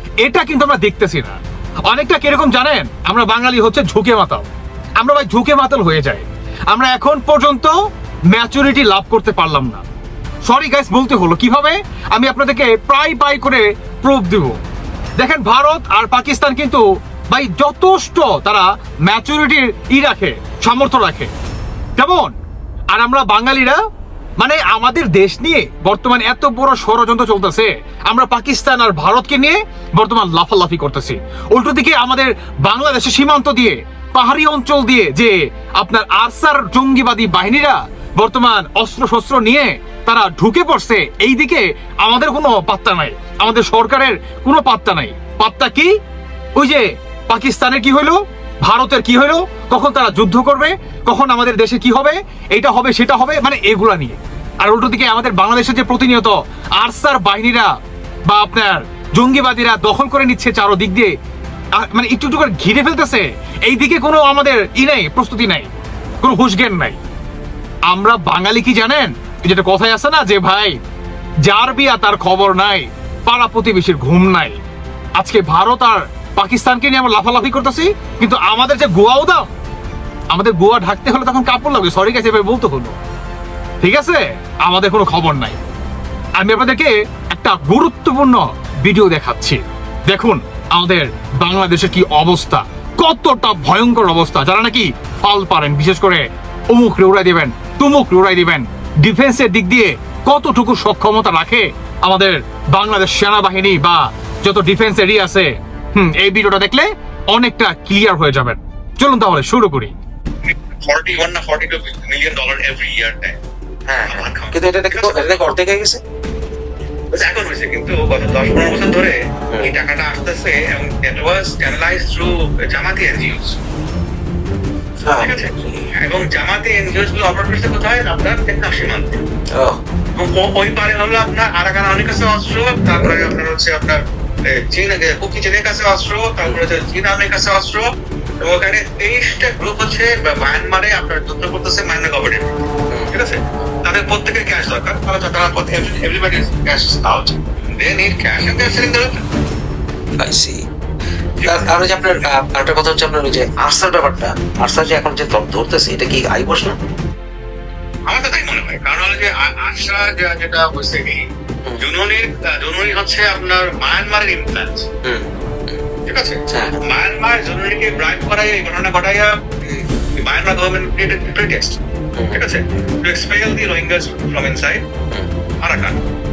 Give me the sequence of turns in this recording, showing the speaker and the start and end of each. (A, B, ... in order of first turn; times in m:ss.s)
0:00.2-0:04.5 A
0:05.0-0:07.8 A
0:08.3-0:09.8 A
0:10.5-0:14.6 A
0:15.2-0:21.3 A
0:22.0-0:22.3 A
0:22.9-0:23.8 A
0:24.4-0:45.9 A
0:46.6-0:57.7 A
0:58.3-1:01.1 A
1:01.8-1:05.7 A
1:06.2-1:07.0 A
1:07.9-1:10.8 A
1:11.4-1:14.6 A
1:15.2-1:19.5 A
1:20.3-1:23.0 A
1:23.8-1:25.6 A
1:26.4-1:49.9 A
1:50.5-1:53.4 B
1:53.9-1:56.0 C
1:54.1-1:55.5 B
1:57.1-2:03.6 B
2:05.0-2:05.9 C
2:05.2-2:09.2 B
2:09.5-2:09.8 C
2:10.2-2:14.0 B
2:14.5-2:17.9 B
2:18.4-2:29.2 B
2:30.2-2:30.6 C
2:31.4-2:32.0 B
2:31.4-2:36.8 C
2:38.1-2:41.2 B
2:41.8-2:44.9 B
2:45.0-2:45.8 C
2:46.1-2:49.3 B
2:46.5-2:46.8 C
2:50.2-2:51.8 B
2:52.2-2:52.4 C
2:52.3-2:54.8 B
2:55.6-2:56.0 B